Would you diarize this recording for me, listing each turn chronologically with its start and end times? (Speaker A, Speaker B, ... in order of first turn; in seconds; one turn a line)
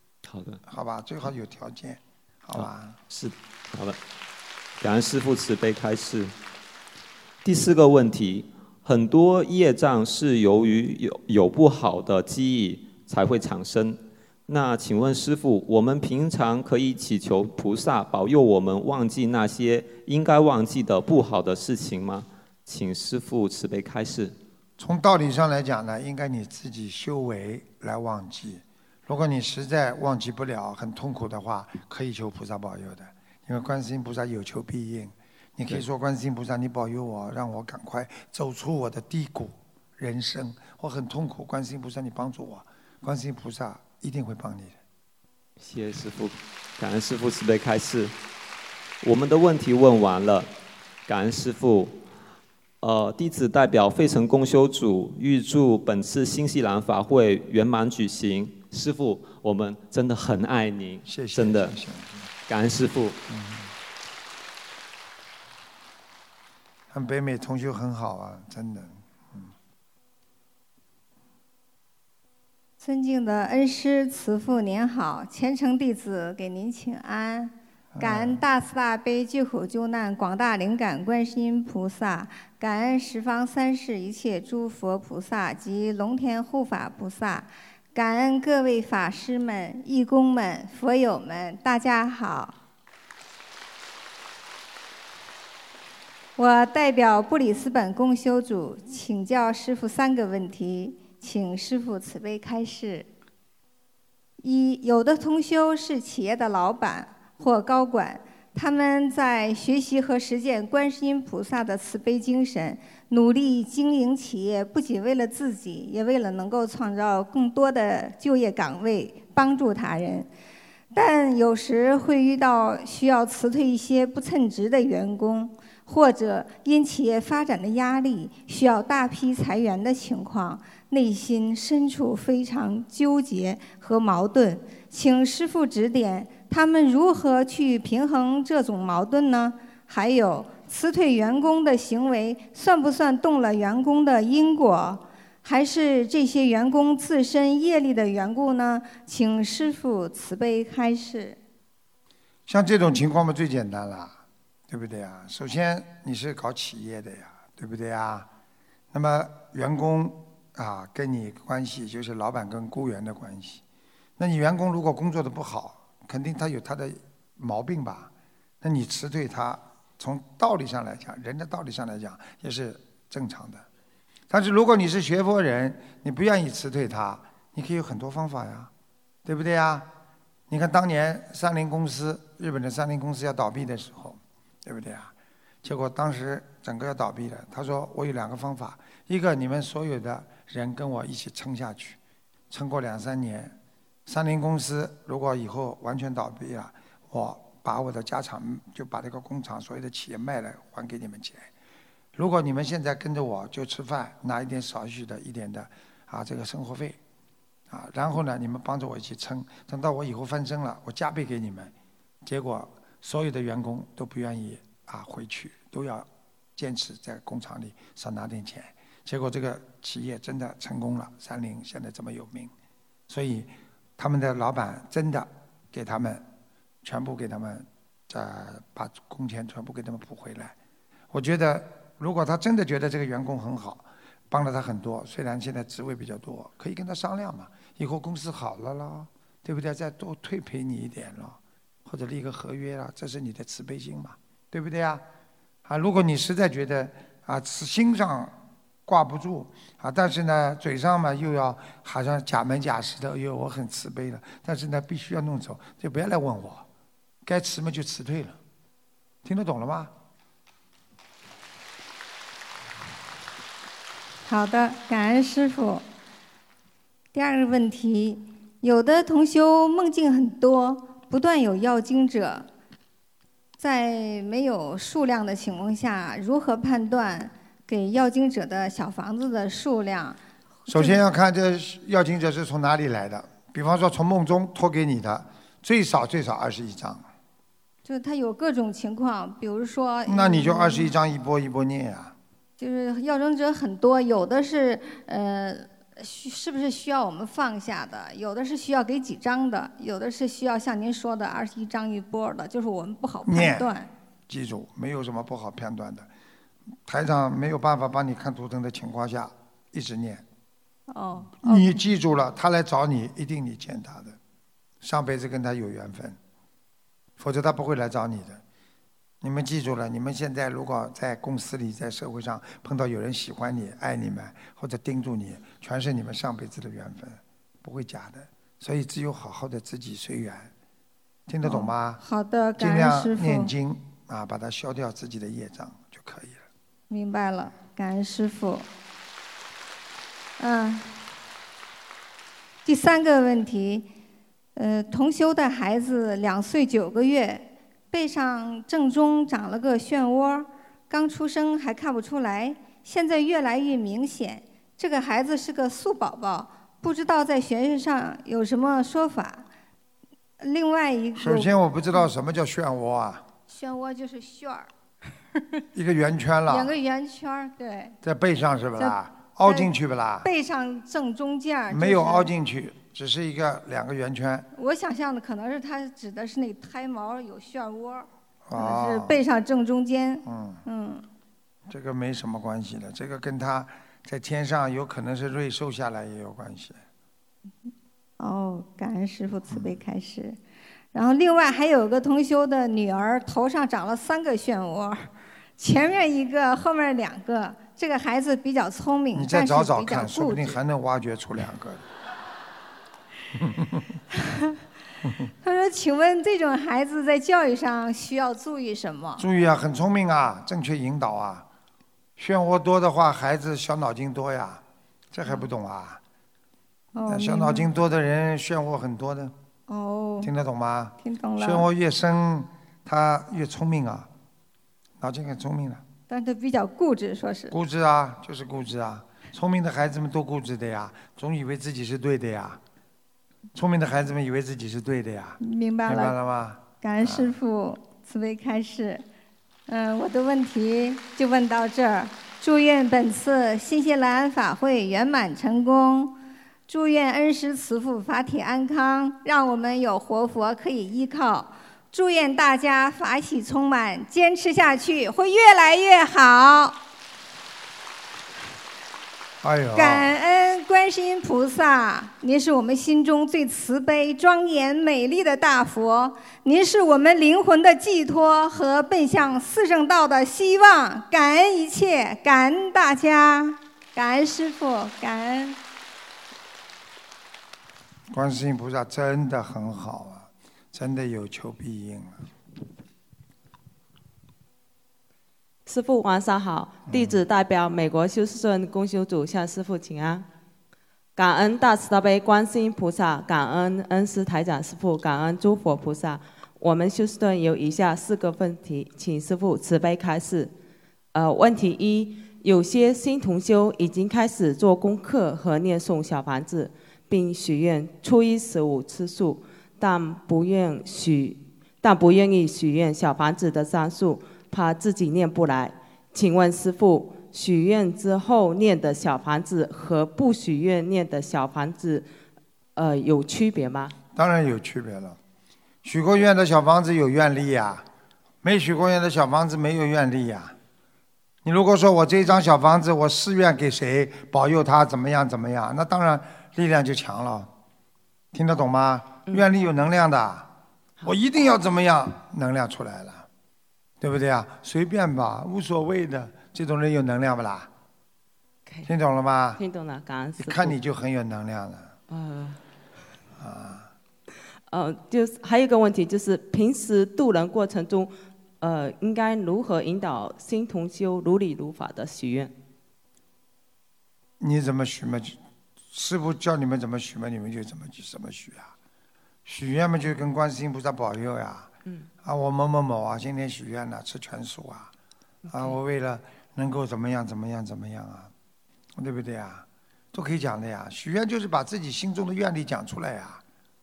Speaker A: 0.2-0.6
Speaker B: 0.7-3.0
Speaker A: 2.5-4.0
Speaker A: 4.8-6.3
Speaker A: 7.4-24.3
Speaker B: 24.8-44.8
Speaker A: 45.6-48.1
Speaker A: 49.0-50.5
Speaker A: 51.1-52.0
Speaker A: 52.8-61.8
Speaker B: 61.0-62.3
Speaker A: 62.5-63.2
Speaker B: 63.3-63.7
Speaker B: 66.9-69.5
Speaker C: 72.8-92.5
Speaker B: 78.0-78.4
Speaker C: 96.4-103.1
Speaker C: 104.4-120.3
Speaker C: 120.9-151.4
Speaker B: 152.5-154.1
Speaker B: 154.7-158.3
Speaker B: 158.9-163.6
Speaker B: 164.2-168.1
Speaker B: 168.6-173.6
Speaker B: 174.3-178.7
Speaker B: 179.2-179.9
Speaker B: 180.5-185.1
Speaker B: 185.6-192.0
Speaker B: 192.5-193.5
Speaker B: 194.1-201.5
Speaker B: 202.1-207.0
Speaker B: 207.7-211.7
Speaker B: 212.2-216.1
Speaker B: 216.6-222.5
Speaker B: 223.1-226.2
Speaker B: 226.8-230.5
Speaker B: 231.1-245.0
Speaker B: 245.7-248.3
Speaker B: 248.9-256.6
Speaker B: 257.2-258.4
Speaker B: 259.2-259.9
Speaker C: 264.3-265.8
Speaker C: 267.1-272.4
Speaker C: 273.6-280.2
Speaker B: 280.7-287.0
Speaker C: 280.7-281.0
Speaker C: 287.8-290.9
Speaker B: 290.1-292.1
Speaker C: 292.6-303.9
Speaker B: 303.2-303.7
Speaker B: 304.3-306.1
Speaker B: 306.9-310.2
Speaker C: 310.9-311.8
Speaker B: 311.4-314.2
Speaker B: 314.8-316.2
Speaker B: 317.2-318.4
Speaker B: 319.2-330.5
Speaker B: 331.3-332.0
Speaker C: 331.4-333.5
Speaker B: 332.6-336.4
Speaker C: 336.9-338.7
Speaker C: 340.4-340.9
Speaker C: 342.6-343.9
Speaker C: 344.6-359.4
Speaker C: 360.4-362.1
Speaker B: 361.1-363.2
Speaker C: 363.5-364.7
Speaker B: 365.7-366.7
Speaker C: 366.5-367.9
Speaker B: 368.0-370.3
Speaker C: 368.8-369.7
Speaker C: 370.2-372.3
Speaker B: 371.7-374.5
Speaker C: 374.6-381.0
Speaker B: 378.5-379.1
Speaker B: 380.2-380.6
Speaker B: 381.7-386.8
Speaker C: 388.2-390.4
Speaker C: 390.9-395.0
Speaker C: 395.6-400.6
Speaker B: 399.1-401.8
Speaker B: 403.4-403.8
Speaker C: 405.4-409.2
Speaker B: 409.2-411.4
Speaker B: 412.2-414.6
Speaker B: 415.1-416.0
Speaker C: 416.9-417.7
Speaker B: 417.1-419.3
Speaker C: 419.7-420.3
Speaker B: 420.2-424.1
Speaker C: 421.0-421.6
Speaker B: 425.0-425.8
Speaker C: 426.1-427.5
Speaker B: 427.5-432.6
Speaker B: 433.5-437.3
Speaker C: 435.4-436.1
Speaker C: 436.8-439.0
Speaker C: 439.7-446.1
Speaker C: 446.7-456.8
Speaker B: 459.4-460.1
Speaker C: 459.7-475.6
Speaker B: 478.1-482.2
Speaker D: 485.6-490.2
Speaker B: 486.9-487.2
Speaker D: 491.1-500.5
Speaker D: 501.1-522.1
Speaker D: 522.8-524.0
Speaker B: 524.1-525.2
Speaker B: 525.8-527.8
Speaker B: 528.4-530.5
Speaker B: 531.4-537.5
Speaker B: 538.3-540.5
Speaker B: 541.0-543.2
Speaker B: 544.0-547.7
Speaker B: 548.8-549.6
Speaker D: 549.6-550.8
Speaker B: 550.4-551.9
Speaker D: 552.1-552.6
Speaker B: 553.4-553.9
Speaker D: 554.7-562.5
Speaker B: 564.4-565.4
Speaker B: 565.9-568.7
Speaker B: 569.4-571.7
Speaker B: 572.2-574.9
Speaker D: 575.5-575.8
Speaker B: 575.5-578.3
Speaker B: 579.0-583.4